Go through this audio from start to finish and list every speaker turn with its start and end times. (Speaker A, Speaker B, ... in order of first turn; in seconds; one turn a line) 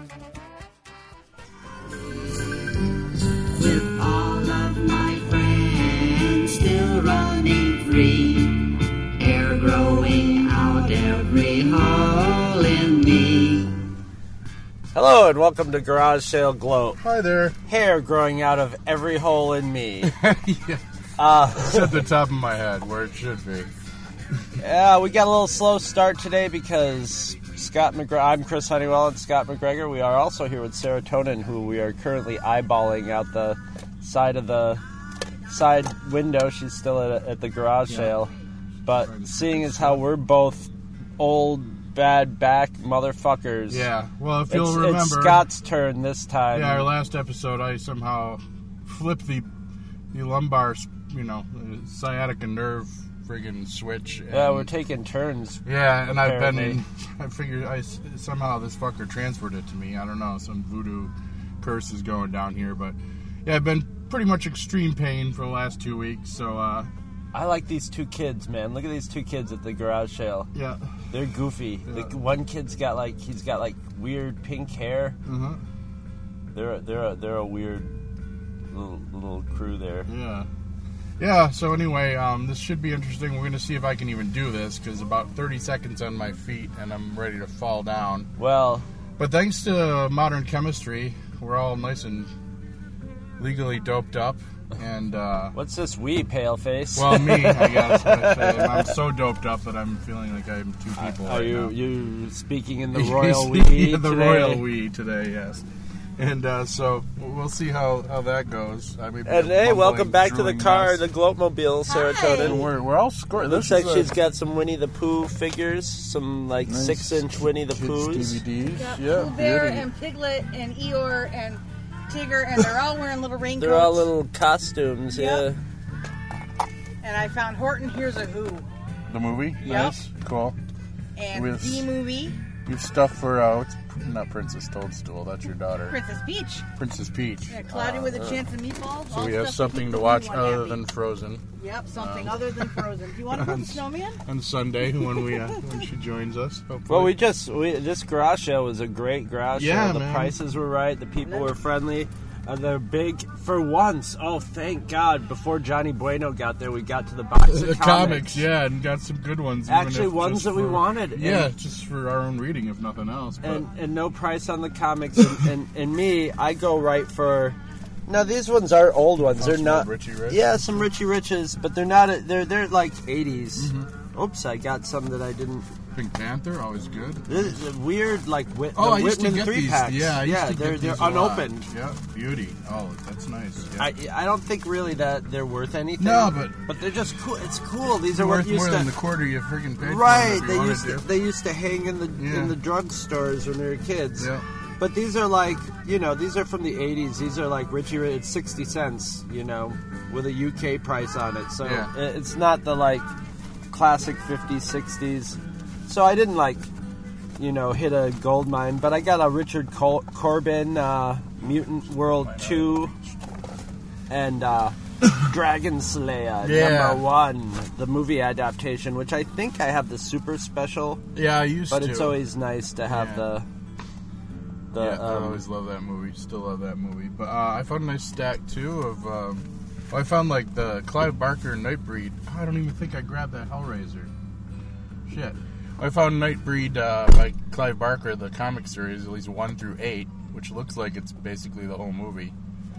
Speaker A: 3.5-8.6
Speaker A: 9.2-13.7
Speaker B: 14.9-17.0
Speaker C: 17.0-17.6
Speaker B: 17.7-20.1
Speaker C: 20.0-20.8
Speaker B: 21.2-22.0
Speaker C: 21.5-23.7
Speaker B: 24.6-34.8
Speaker B: 35.5-38.3
Speaker C: 37.9-38.1
Speaker B: 38.8-43.9
Speaker C: 38.9-40.0
Speaker C: 43.7-45.5
Speaker B: 44.5-46.9
Speaker C: 46.5-49.5
Speaker C: 50.1-54.7
Speaker B: 54.3-56.8
Speaker C: 55.6-66.9
Speaker B: 67.3-70.5
Speaker C: 70.5-70.9
Speaker B: 71.1-75.2
Speaker C: 71.9-72.1
Speaker C: 75.2-75.6
Speaker B: 76.5-77.9
Speaker B: 78.7-80.1
Speaker C: 80.1-80.5
Speaker C: 81.2-88.3
Speaker B: 88.4-88.9
Speaker C: 89.2-92.3
Speaker C: 93.4-95.5
Speaker B: 95.5-98.9
Speaker C: 96.9-101.8
Speaker B: 101.0-104.6
Speaker C: 102.9-105.7
Speaker C: 106.2-111.0
Speaker B: 109.2-112.7
Speaker D: 111.9-112.6
Speaker C: 112.3-114.1
Speaker B: 113.4-118.4
Speaker C: 116.7-119.9
Speaker D: 118.8-124.1
Speaker B: 123.6-125.6
Speaker D: 125.1-125.5
Speaker D: 127.0-128.7
Speaker C: 129.1-130.6
Speaker D: 129.6-130.0
Speaker B: 129.7-130.0
Speaker D: 131.2-132.4
Speaker C: 131.3-131.9
Speaker C: 132.7-136.0
Speaker D: 135.9-136.7
Speaker C: 136.8-138.4
Speaker D: 137.5-140.8
Speaker C: 139.1-141.4
Speaker D: 141.6-144.2
Speaker C: 141.9-147.2
Speaker D: 145.2-145.6
Speaker B: 146.9-158.4
Speaker C: 149.5-150.3
Speaker D: 151.2-151.5
Speaker C: 157.5-163.7
Speaker B: 159.7-161.5
Speaker B: 163.4-175.7
Speaker C: 169.3-170.8
Speaker C: 173.6-173.9
Speaker C: 175.9-177.7
Speaker B: 177.3-181.7
Speaker C: 178.8-183.9
Speaker B: 183.8-188.9
Speaker C: 186.0-186.6
Speaker C: 188.1-191.1
Speaker B: 189.8-203.1
Speaker C: 192.2-192.6
Speaker C: 194.2-194.4
Speaker C: 201.6-201.9
Speaker B: 203.7-206.7
Speaker B: 207.4-212.9
Speaker C: 212.1-213.1
Speaker B: 214.1-221.0
Speaker C: 216.4-217.0
Speaker C: 221.2-222.2
Speaker B: 221.7-223.5
Speaker C: 222.9-223.2
Speaker B: 224.7-225.4
Speaker C: 224.8-234.1
Speaker C: 235.1-242.3